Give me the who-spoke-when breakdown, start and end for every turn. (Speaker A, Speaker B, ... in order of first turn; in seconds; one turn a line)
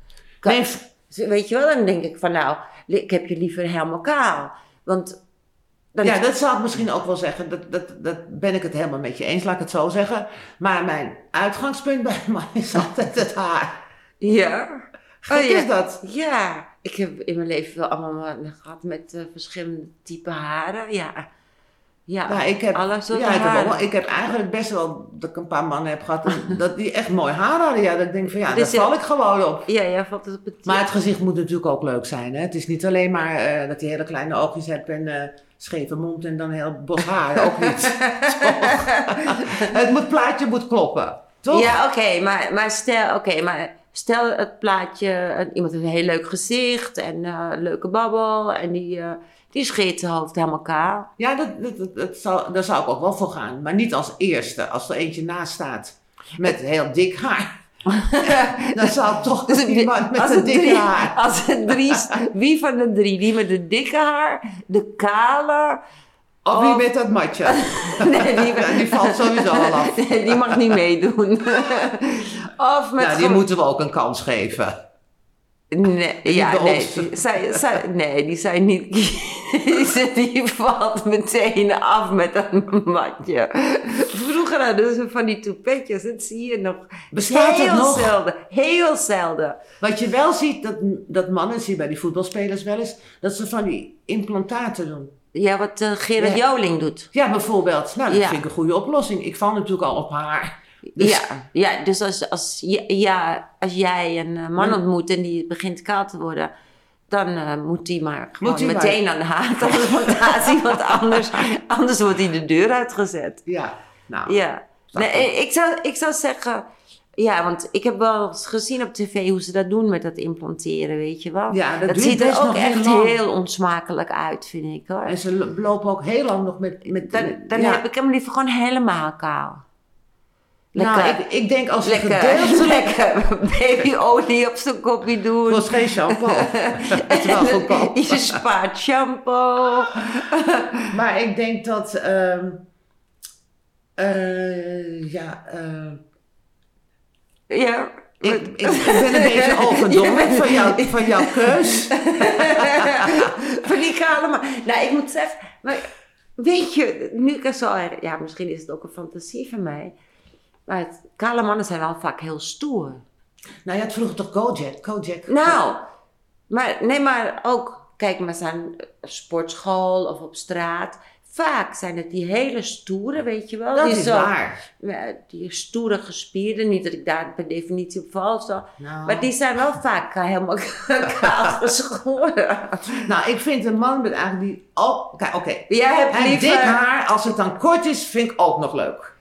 Speaker A: 0.4-5.2
Speaker B: 0.4-0.8
Speaker A: 5.9-6.2
Speaker B: 6.0-13.8
Speaker A: 14.2-21.2
Speaker B: 15.2-16.0
Speaker A: 22.1-23.9
Speaker B: 22.3-29.7
Speaker A: 28.3-28.9
Speaker A: 29.6-30.8
Speaker B: 30.6-41.8
Speaker A: 37.4-39.7
Speaker A: 41.5-51.1
Speaker B: 51.2-57.5
Speaker A: 57.9-65.8
Speaker B: 58.2-62.1
Speaker B: 66.4-70.6
Speaker A: 66.5-66.8
Speaker A: 67.4-73.4
Speaker B: 73.0-74.8
Speaker A: 75.7-89.6
Speaker B: 76.2-77.8
Speaker B: 87.1-88.1
Speaker B: 89.8-95.1
Speaker A: 95.3-97.1
Speaker B: 96.2-96.4
Speaker B: 97.1-101.3
Speaker A: 98.1-98.4
Speaker A: 101.0-106.5
Speaker A: 107.1-113.4
Speaker B: 108.4-109.0
Speaker B: 109.6-111.2
Speaker B: 113.5-114.4
Speaker A: 114.2-116.6
Speaker B: 114.9-115.3
Speaker A: 117.2-125.2
Speaker B: 121.5-123.2
Speaker B: 125.0-127.8
Speaker A: 126.9-129.6
Speaker A: 130.7-131.2
Speaker B: 130.8-133.0
Speaker A: 131.8-140.9
Speaker B: 135.5-138.4
Speaker B: 140.9-142.6
Speaker B: 144.0-146.0
Speaker A: 147.5-159.9
Speaker B: 148.2-153.3
Speaker A: 160.7-163.0
Speaker B: 163.6-165.6
Speaker A: 165.3-165.8
Speaker A: 166.5-183.1
Speaker B: 173.7-174.6
Speaker B: 178.8-179.3
Speaker B: 183.0-189.1
Speaker A: 185.7-186.8